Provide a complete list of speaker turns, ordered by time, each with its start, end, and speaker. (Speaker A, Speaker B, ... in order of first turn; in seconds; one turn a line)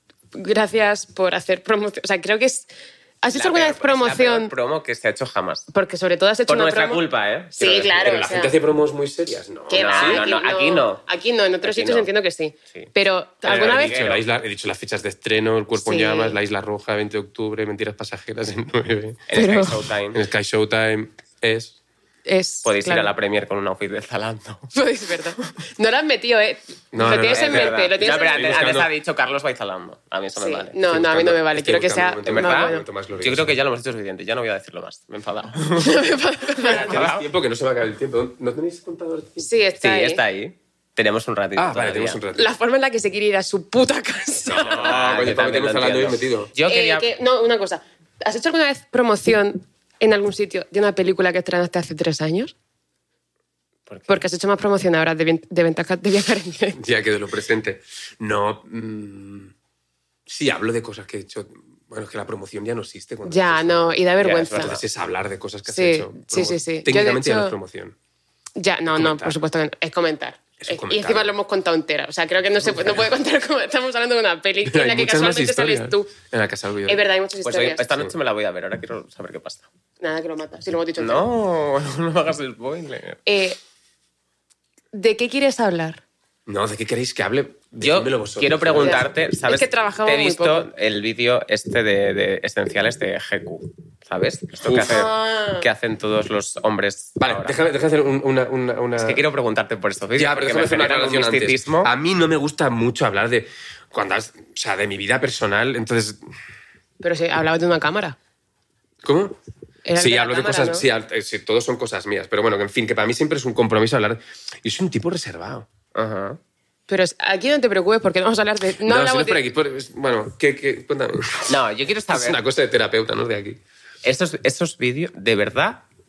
Speaker A: 0.3-2.7
Speaker A: 3.2-4.5
Speaker B: 3.3-5.7
Speaker A: 5.7-8.6
Speaker B: 6.5-8.2
Speaker C: 8.0-10.3
Speaker A: 9.7-14.1
Speaker B: 9.7-11.0
Speaker B: 11.6-12.1
Speaker C: 13.4-19.3
Speaker B: 13.4-14.2
Speaker A: 15.8-16.4
Speaker B: 19.3-20.2
Speaker A: 19.3-19.9
Speaker C: 20.1-21.8
Speaker A: 22.2-23.1
Speaker B: 22.6-24.7
Speaker A: 24.7-28.6
Speaker C: 26.9-28.9
Speaker B: 27.3-30.8
Speaker A: 30.4-32.9
Speaker C: 30.9-33.5
Speaker B: 32.2-36.0
Speaker A: 35.7-37.0
Speaker B: 36.5-37.2
Speaker C: 36.6-39.5
Speaker A: 39.4-40.2
Speaker B: 39.8-42.2
Speaker C: 41.5-42.5
Speaker A: 42.3-45.0
Speaker C: 44.5-46.5
Speaker B: 44.6-47.1
Speaker A: 46.6-52.5
Speaker B: 53.9-54.2
Speaker A: 54.1-56.8
Speaker C: 56.7-59.5
Speaker C: 60.3-64.0
Speaker A: 63.2-64.8
Speaker B: 64.2-64.8
Speaker C: 64.5-68.0
Speaker A: 65.7-67.6
Speaker A: 68.5-76.1
Speaker C: 68.9-69.4
Speaker C: 70.6-71.3
Speaker C: 74.6-77.0
Speaker A: 76.9-77.9
Speaker B: 77.4-79.7
Speaker A: 80.0-81.3
Speaker B: 81.0-83.2
Speaker A: 83.2-83.6
Speaker A: 84.9-86.0
Speaker C: 86.5-89.0
Speaker B: 87.8-97.6
Speaker A: 88.8-90.7
Speaker C: 94.6-95.0
Speaker A: 94.8-95.7
Speaker C: 97.2-99.2
Speaker B: 99.0-101.9
Speaker C: 100.2-106.3
Speaker A: 107.0-108.2
Speaker C: 109.0-109.4
Speaker A: 109.8-110.8
Speaker C: 110.0-115.7
Speaker B: 115.9-116.4
Speaker A: 116.9-119.4
Speaker C: 118.8-121.5
Speaker B: 121.5-122.4
Speaker C: 122.1-123.6
Speaker B: 124.0-125.8